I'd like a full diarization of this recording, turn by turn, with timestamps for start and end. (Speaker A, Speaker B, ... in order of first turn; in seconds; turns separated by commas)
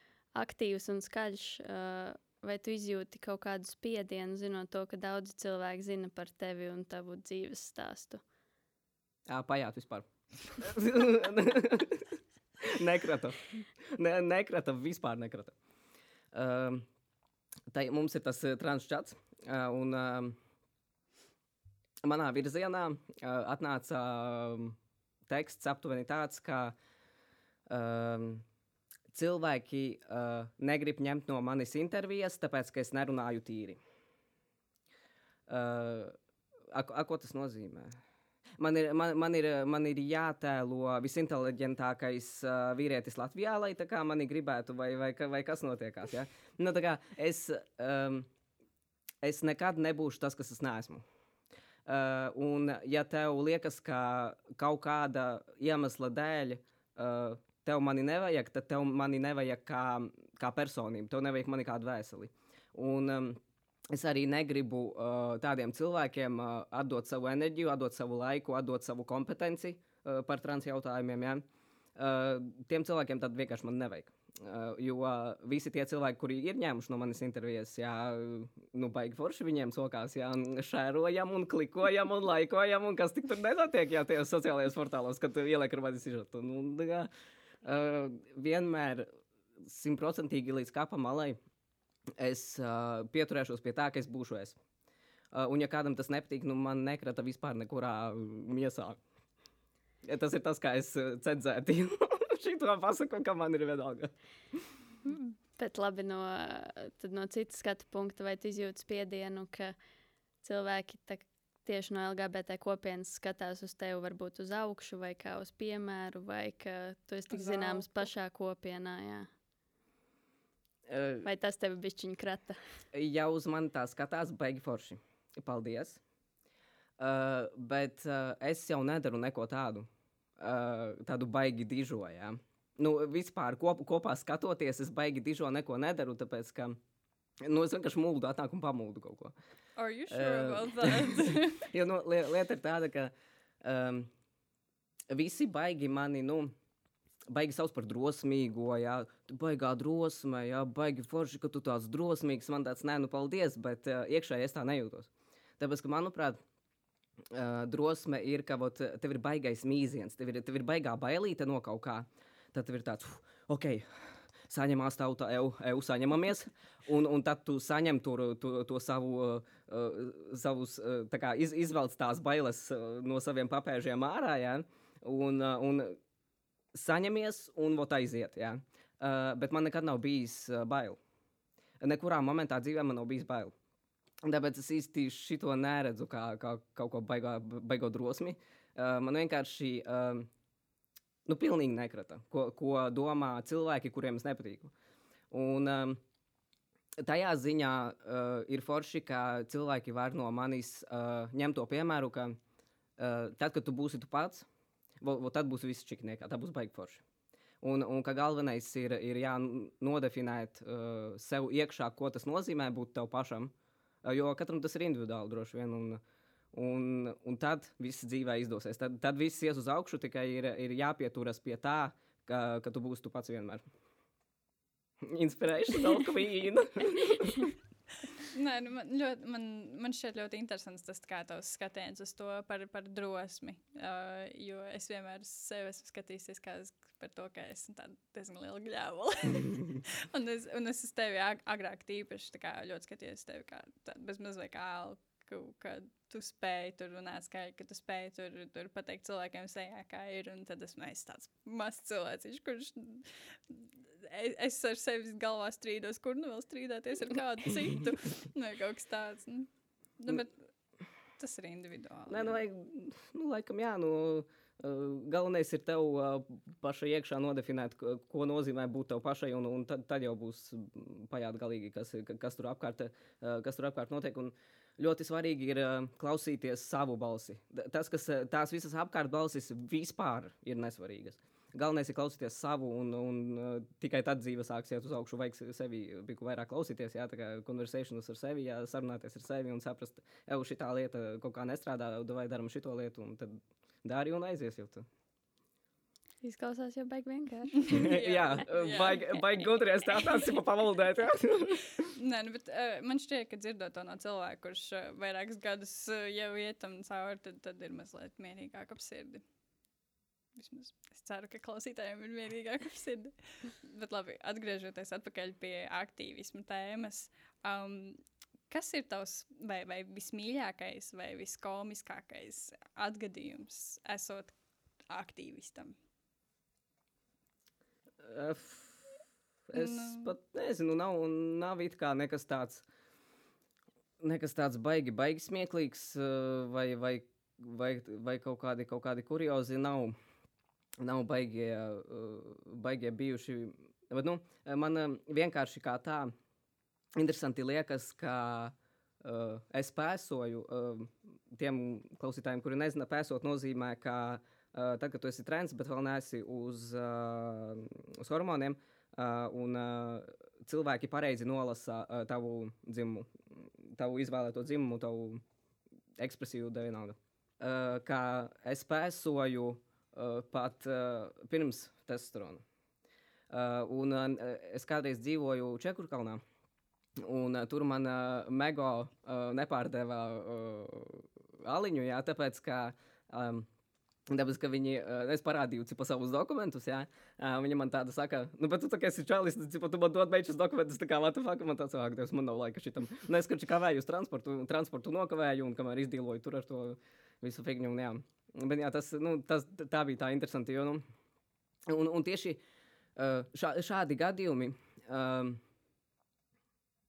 Speaker A: 0.3-8.2, Speaker B: 9.3-12.1, Speaker B: 12.6-15.5, Speaker B: 16.3-16.9, Speaker B: 17.7-20.4, Speaker B: 22.0-26.8, Speaker B: 27.7-28.4, Speaker B: 29.1-33.8, Speaker B: 35.5-36.2, Speaker B: 36.7-38.0, Speaker B: 38.6-48.3, Speaker B: 49.2-51.0, Speaker B: 51.9-63.4, Speaker B: 63.9-71.4, Speaker B: 72.0-87.1, Speaker B: 87.6-89.1, Speaker B: 89.6-91.4, Speaker B: 92.2-94.6, Speaker B: 95.3-99.0, Speaker B: 100.0-104.6, Speaker A: 105.1-109.8, Speaker A: 110.4-119.3, Speaker C: 117.3-118.1, Speaker B: 120.9-121.3, Speaker A: 121.2-122.6, Speaker B: 122.9-126.0, Speaker B: 127.0-129.9, Speaker B: 130.4-136.8, Speaker B: 137.4-139.3, Speaker C: 139.8-141.7, Speaker B: 140.1-143.1, Speaker B: 143.6-144.1, Speaker B: 145.1-146.5, Speaker B: 147.3-156.4, Speaker B: 157.3-163.8, Speaker B: 164.5-176.0, Speaker B: 176.7-181.0, Speaker B: 181.8-183.5, Speaker B: 184.2-190.3, Speaker B: 191.3-194.7, Speaker B: 195.3-196.0, Speaker B: 197.0-202.4, Speaker B: 203.0-204.5, Speaker B: 205.0-207.0, Speaker B: 207.6-213.5, Speaker B: 214.0-216.0, Speaker B: 216.5-223.6, Speaker B: 225.0-227.5, Speaker C: 228.3-260.4, Speaker C: 261.2-262.4, Speaker B: 262.1-294.9, Speaker A: 296.2-298.1, Speaker C: 297.6-299.2, Speaker B: 297.7-301.9, Speaker C: 301.9-309.2, Speaker C: 310.4-324.3, Speaker C: 324.9-325.8, Speaker B: 328.0-328.9, Speaker B: 329.5-332.6, Speaker C: 329.6-330.1, Speaker B: 334.0-340.0, Speaker B: 340.8-346.1, Speaker B: 347.0-365.2, Speaker B: 366.0-372.4, Speaker B: 373.3-376.2, Speaker B: 377.0-383.5, Speaker B: 384.1-400.8, Speaker B: 401.7-402.4, Speaker B: 403.0-405.4